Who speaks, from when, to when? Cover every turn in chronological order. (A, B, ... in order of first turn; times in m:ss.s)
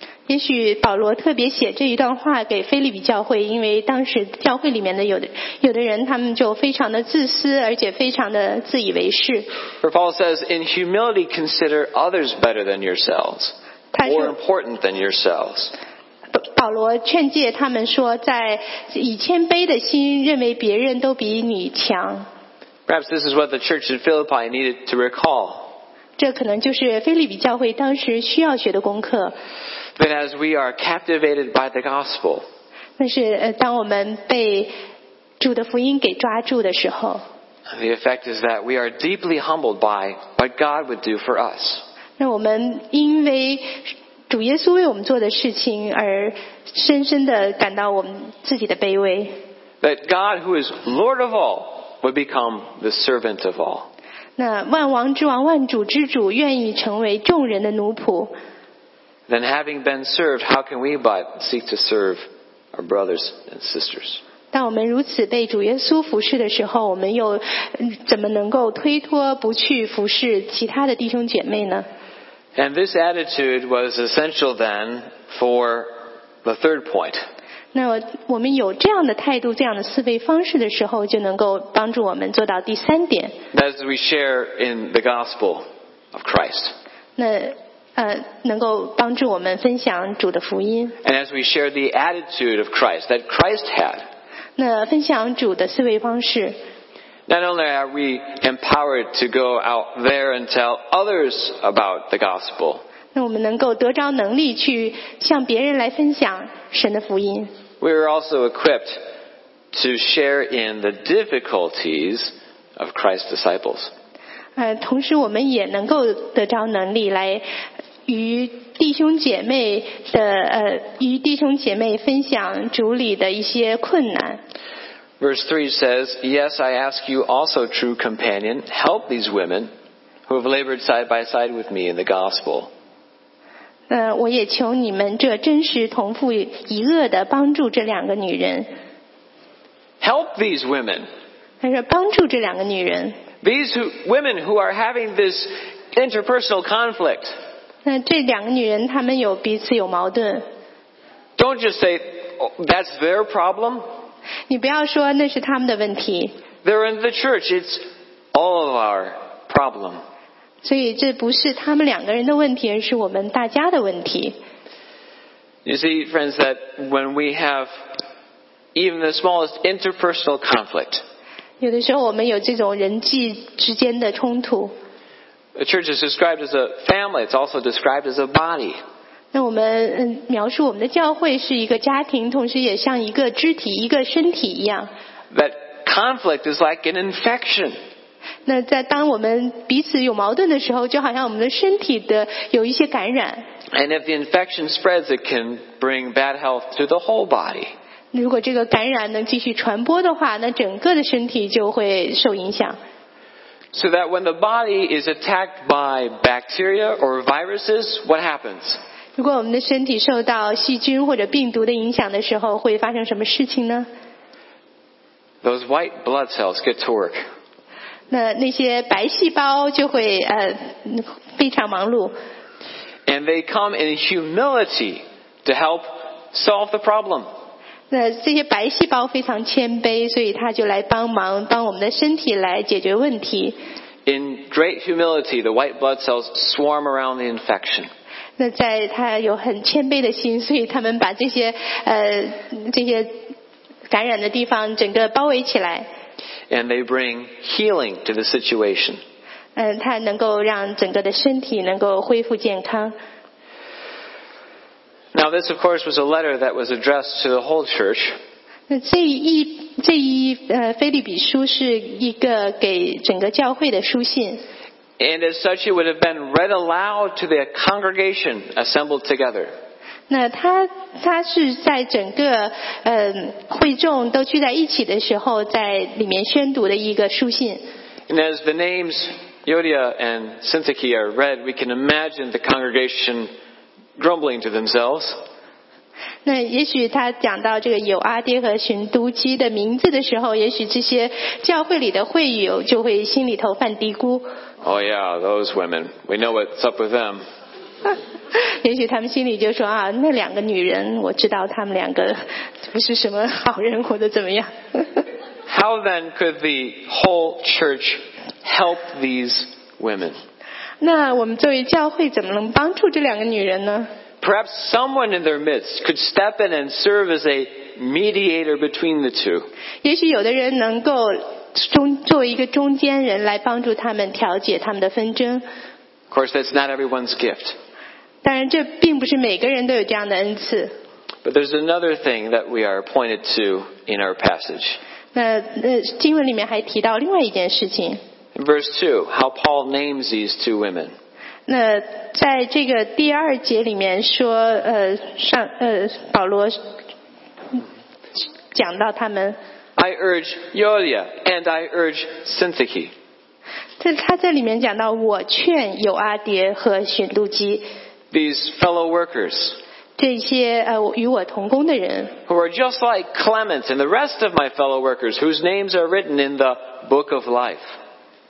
0:00.3-0:09.5 A
0:09.8-0:15.7 B
0:13.9-0:14.3 A
0:16.3-0:22.3 A
0:22.9-0:25.7 B
0:26.2-0:29.3 A
0:30.0-0:32.4 B
0:33.0-0:34.7 A
0:35.4-0:37.2 A
0:37.7-0:41.8 B
0:42.2-0:49.3 A
0:49.8-0:53.9 B
0:54.4-0:58.3 A
0:59.3-1:04.2 B
1:04.5-1:11.9 A
1:12.5-1:17.2 B
1:17.7-1:23.3 A
1:23.5-1:26.7 B
1:27.2-1:31.0 A
1:31.0-1:34.0 B
1:34.6-1:36.6 A
1:37.3-1:42.8 B
1:43.1-1:47.5 A
1:47.8-1:49.0 B
1:49.7-1:53.9 B
1:54.6-1:57.4 A
1:58.0-2:04.4 A
2:05.2-2:09.7 B
2:10.3-2:12.7 B
2:13.9-2:18.7 A
2:20.0-2:21.1 B
2:21.6-2:23.2 A
2:23.4-2:27.3 B
2:27.8-2:30.4 A
2:31.4-2:33.8 B
2:34.5-2:36.3 A
2:36.6-2:40.0 B
2:40.6-2:44.4 A
2:45.6-2:47.7 B
2:48.7-2:51.0 B
2:51.6-2:54.7 A
2:55.5-2:58.8 B
2:59.3-3:04.9 A
3:05.3-3:07.8 B
3:08.4-3:13.4 A
3:13.7-3:17.7 B
3:18.1-3:22.8 A
3:23.7-3:28.8 B
3:29.2-3:33.9 A
3:35.4-3:37.2 B
3:38.1-3:42.1 A
3:43.0-3:47.3 B
3:47.9-3:53.6 A
3:54.0-3:57.9 B
3:58.4-4:03.2 A
4:03.9-4:05.9 A
4:06.5-4:09.0 B
4:09.6-4:12.9 A
4:15.1-4:18.2 B
4:18.7-4:24.4 A
4:25.0-4:29.5 B
4:30.1-4:37.6 A
4:38.1-4:43.3 B
4:44.0-4:45.2 B
4:46.2-4:54.3 A
4:54.6-4:57.2 B
4:58.3-5:05.0 A
5:05.5-5:10.2 B
5:10.8-5:13.9 A
5:14.2-5:19.5 B
5:19.8-5:25.4 A
5:26.1-5:27.6 B
5:28.2-5:30.7 A
5:31.2-5:34.8 B
5:35.1-5:38.0 A
5:38.3-5:40.9 B
5:41.5-5:46.6 A
5:48.5-5:49.4 A
5:49.8-5:52.9 B
5:53.8-5:57.6 A
5:58.1-5:59.6 B
6:00.0-6:02.1 A
6:02.3-6:07.7 B